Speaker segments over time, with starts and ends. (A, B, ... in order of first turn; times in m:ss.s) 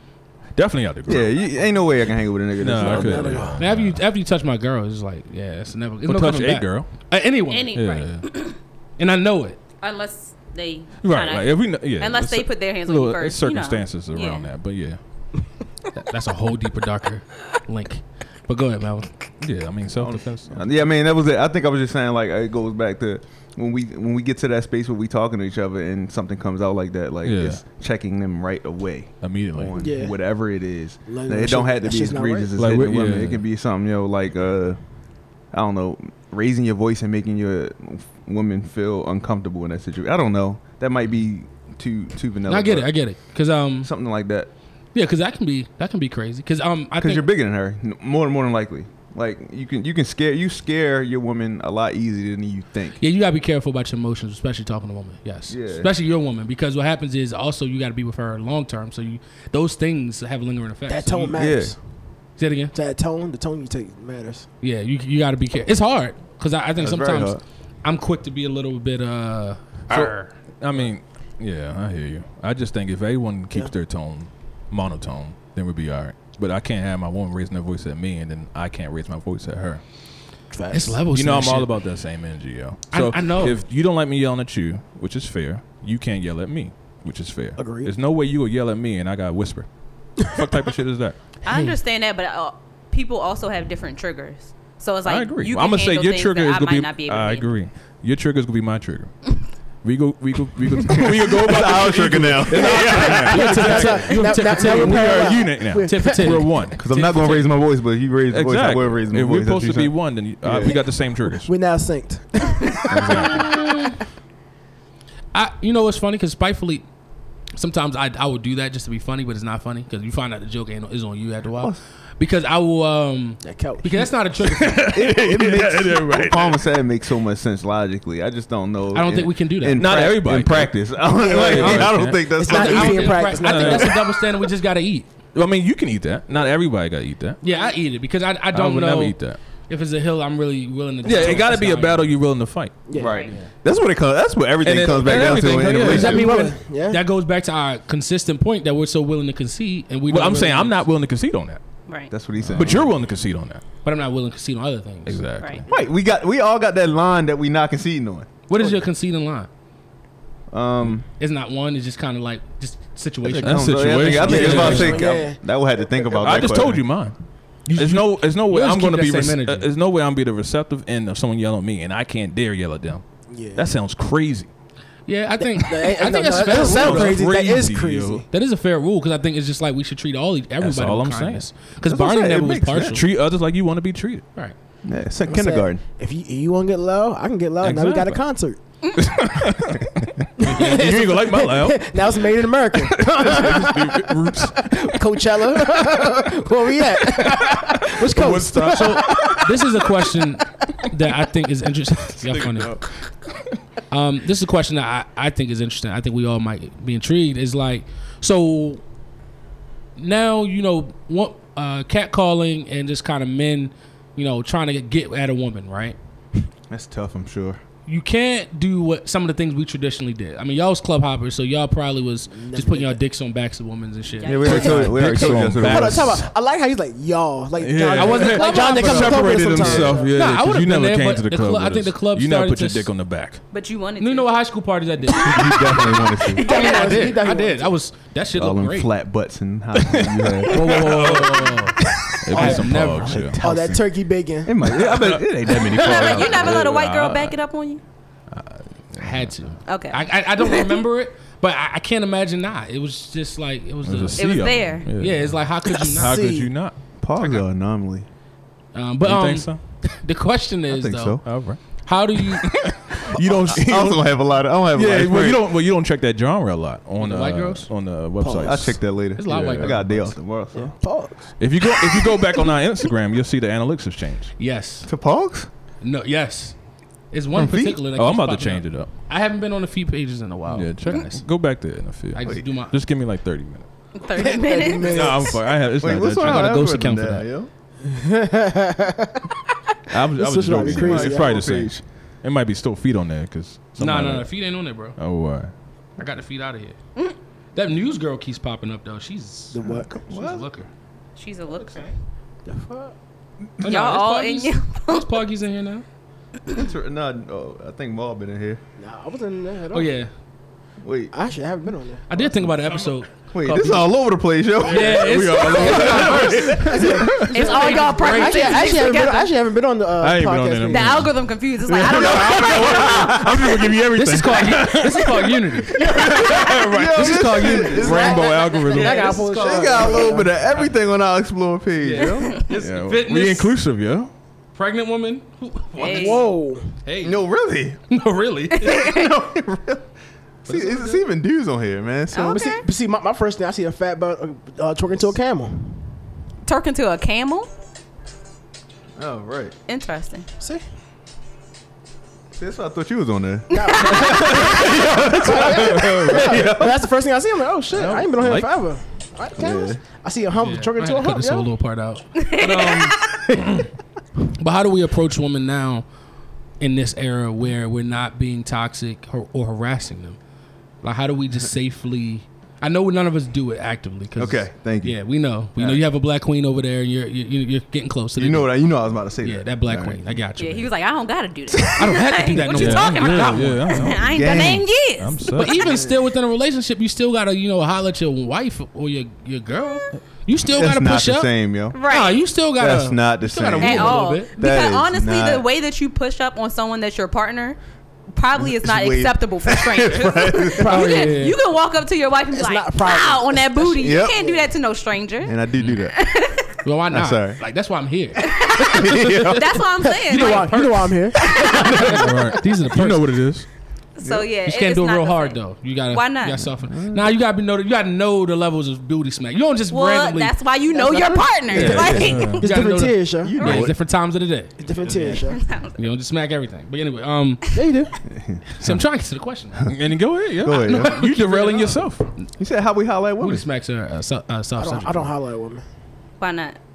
0:00.6-0:01.5 A
0:01.1-0:03.6 B
0:02.6-0:04.0 A
0:02.7-0:03.6 C
0:03.6-0:07.8 D
0:06.0-0:07.1 A
0:07.5-0:08.6 E
0:07.8-0:08.2 A
0:09.0-0:09.6 D
0:09.8-0:14.5 E
0:11.0-0:15.0 A
0:16.0-0:19.1 D
0:19.4-0:20.6 A
0:20.0-0:34.8 B
0:27.2-0:27.6 A
0:29.2-0:29.9 A
0:29.8-0:30.2 C
0:31.1-0:32.6 C
0:32.6-0:33.4 A
0:35.5-0:42.9 B
0:42.5-0:43.9 D
0:43.8-0:44.5 B
0:44.9-0:47.3 D
0:47.0-0:53.0 B
0:53.0-1:01.4 D
0:55.5-0:55.9 B
1:00.9-1:01.8 C
1:01.3-1:01.8 B
1:02.4-1:02.7 D
1:02.7-1:04.5 C
1:04.6-1:10.4 D
1:06.8-1:07.4 B
1:09.9-1:19.8 A
1:20.5-1:21.0 C
1:20.7-1:21.7 D
1:21.1-1:31.2 A
1:22.9-1:23.6 D
1:27.6-1:27.9 C
1:31.4-1:37.5 E
1:35.1-1:46.8 A
1:40.9-1:43.2 B
1:42.5-1:46.5 C
1:42.8-1:47.5 D
1:46.8-1:50.8 B
1:48.3-1:51.5 A
1:50.6-1:53.4 C
1:52.9-1:53.6 A
1:53.3-1:54.0 D
1:55.3-1:56.9 D
1:57.6-2:05.1 D
2:03.4-2:04.2 C
2:04.5-2:06.7 A
2:04.9-2:13.4 B
2:08.9-2:09.9 D
2:09.7-2:12.4 A
2:11.2-2:14.0 C
2:11.4-2:15.1 D
2:13.1-2:14.1 A
2:15.3-2:17.4 A
2:17.4-2:22.2 D
2:17.5-2:17.7 E
2:18.5-2:19.4 A
2:21.0-2:22.9 A
2:22.9-2:23.3 C
2:22.9-2:26.4 B
2:23.0-2:23.3 E
2:24.6-2:26.3 A
2:25.1-2:30.8 D
2:25.9-2:27.0 C
2:30.1-2:31.6 A
2:31.9-2:32.1 E
2:32.1-2:33.0 B
2:32.4-2:32.7 D
2:32.6-2:33.6 A
2:33.8-2:35.2 D
2:35.1-2:35.7 A
2:35.7-2:38.3 B
2:38.5-2:39.5 D
2:40.5-2:41.0 B
2:41.2-2:45.0 D
2:43.2-2:46.8 B
2:43.4-2:45.1 A
2:44.2-2:46.4 C
2:46.1-2:47.2 A
2:47.7-2:49.7 D
2:47.7-2:54.5 A
2:53.3-2:53.6 C
2:55.1-2:57.2 D
2:55.5-2:58.2 C
2:56.4-2:58.2 A
2:58.3-3:03.0 D
3:00.6-3:01.6 A
3:01.9-3:03.0 B
3:02.9-3:04.3 A
3:04.8-3:05.8 B
3:05.3-3:08.6 C
3:07.6-3:08.2 A
3:09.0-3:12.1 A
3:10.4-3:19.4 C
3:12.8-3:15.0 A
3:17.1-3:19.6 A
3:18.7-3:22.8 D
3:22.3-3:22.8 A
3:23.9-3:28.8 D
3:30.0-3:36.0 D
3:36.7-3:37.6 B
3:37.9-3:44.4 D
3:42.3-3:43.0 C
3:44.2-3:44.7 E
3:44.2-3:46.2 B
3:44.4-3:46.3 A
3:44.5-3:50.1 C
3:47.6-3:53.4 A
3:47.9-3:49.3 D
3:48.8-3:50.0 B
3:50.1-3:52.9 D
3:53.5-3:54.3 E
3:54.0-3:58.9 D
3:55.1-3:56.5 B
3:56.4-3:57.1 E
3:56.4-3:57.8 C
3:58.3-4:01.1 B
3:59.7-4:01.6 A
4:00.5-4:01.8 D
4:02.2-4:03.4 A
4:02.3-4:04.6 C
4:02.3-4:03.9 B
4:02.4-4:03.1 D
4:04.4-4:06.8 B
4:04.6-4:07.4 A
4:05.7-4:07.8 E
4:08.3-4:09.5 A
4:09.0-4:16.2 D
4:09.7-4:10.8 E
4:13.8-4:15.4 A
4:14.2-4:14.9 E
4:15.8-4:16.5 C
4:16.0-4:16.8 A
4:17.0-4:18.1 B
4:18.7-4:22.6 D
4:19.0-4:19.6 A
4:20.7-4:21.3 B
4:21.2-4:21.6 A
4:22.2-4:24.2 A
4:23.5-4:25.5 B
4:24.7-4:30.1 A
4:27.0-4:27.7 D
4:28.2-4:28.8 C
4:28.4-4:30.8 B
4:29.2-4:30.2 D
4:30.5-4:31.3 C
4:31.4-4:34.3 A
4:34.4-4:34.9 D
4:34.9-4:35.5 B
4:35.8-4:36.6 D
4:37.1-4:41.2 D
4:37.3-4:37.8 B
4:37.9-4:38.9 A
4:40.5-4:43.7 A
4:42.1-4:42.8 D
4:44.0-4:45.0 E
4:44.2-4:45.4 C
4:44.9-4:47.5 B
4:44.9-4:46.6 A
4:46.2-4:47.3 D
4:47.8-4:49.3 C
4:49.9-4:55.5 A
4:50.2-4:51.4 C
4:50.4-4:51.8 B
4:53.8-4:55.0 D
4:56.0-4:56.8 D
4:57.6-5:00.7 D
4:59.5-4:59.9 C
4:59.6-5:00.5 B
5:01.2-5:01.9 E
5:01.6-5:01.9 D
5:02.5-5:03.0 C
5:03.6-5:05.8 D
5:03.6-5:05.1 E
5:06.5-5:08.6 B
5:08.8-5:09.9 C
5:09.7-5:10.1 D
5:10.8-5:11.1 B
5:11.1-5:12.1 C
5:12.1-5:14.0 D
5:13.3-5:17.0 B
5:14.6-5:18.8 D
5:14.8-5:17.3 A
5:15.8-5:21.1 C
5:17.3-5:19.3 E
5:20.0-5:29.3 A
5:20.7-5:23.5 E
5:21.8-5:23.5 B
5:23.9-5:30.3 D
5:25.8-5:26.2 E
5:26.2-5:28.3 B
5:27.7-5:30.4 C
5:29.4-5:32.5 B
5:31.8-5:33.6 D
5:32.0-5:32.4 E
5:32.5-5:34.1 A
5:34.6-5:36.3 D
5:35.8-5:36.2 E
5:35.8-5:36.7 C
5:36.8-5:37.3 D
5:37.0-5:37.8 B
5:37.9-5:38.9 D
5:38.6-5:39.1 E
5:38.6-5:39.9 B
5:40.5-5:41.0 D
5:40.5-5:42.5 B
5:42.1-5:42.6 E
5:42.3-5:45.8 C
5:46.5-5:47.5 E
5:49.0-5:49.6 B
5:49.7-5:50.3 E
5:52.4-5:56.8 B
5:53.5-6:01.5 C
5:53.8-5:54.5 E
5:54.9-5:56.5 A
5:57.8-5:58.5 A
5:59.4-5:59.8 B
6:00.4-6:03.7 D
6:02.2-6:03.2 E
6:04.3-6:05.9 D
6:06.6-6:10.2 D
6:10.8-6:18.6 D
6:14.2-6:15.0 B
6:15.6-6:15.8 B
6:18.2-6:20.2 B
6:19.2-6:20.7 D
6:20.4-6:25.4 E
6:21.8-6:23.8 D
6:22.4-6:25.6 A
6:23.9-6:24.8 B
6:25.3-6:34.3 D
6:30.5-6:31.8 B
6:31.7-6:32.2 E
6:32.6-6:35.5 B
6:33.6-6:37.6 E
6:38.2-6:46.6 E
6:38.4-6:40.8 B
6:40.6-6:41.3 C
6:40.7-6:41.4 D
6:42.3-6:44.5 C
6:43.8-6:44.2 B
6:45.2-6:46.0 B
6:46.6-6:49.4 D
6:46.9-6:47.4 B
6:48.2-6:49.6 B
6:48.3-6:51.9 E
6:49.8-6:52.2 C
6:50.1-6:53.2 D
6:51.9-6:53.5 A
6:54.0-6:56.5 E
6:54.4-7:00.4 D
6:56.6-6:57.1 B
6:59.7-7:02.5 E
7:00.7-7:03.6 C
7:01.5-7:07.5 D
7:01.5-7:02.2 B
7:01.9-7:02.4 A
7:03.2-7:03.8 B
7:04.6-7:05.4 C
7:05.2-7:05.9 E
7:07.5-7:07.9 C
7:08.1-7:08.8 B
7:08.6-7:09.6 D
7:09.7-7:12.1 A
7:10.4-7:11.0 B
7:10.5-7:12.3 D
7:12.4-7:13.5 B
7:13.2-7:15.1 D
7:14.6-7:15.6 C
7:16.2-7:16.6 E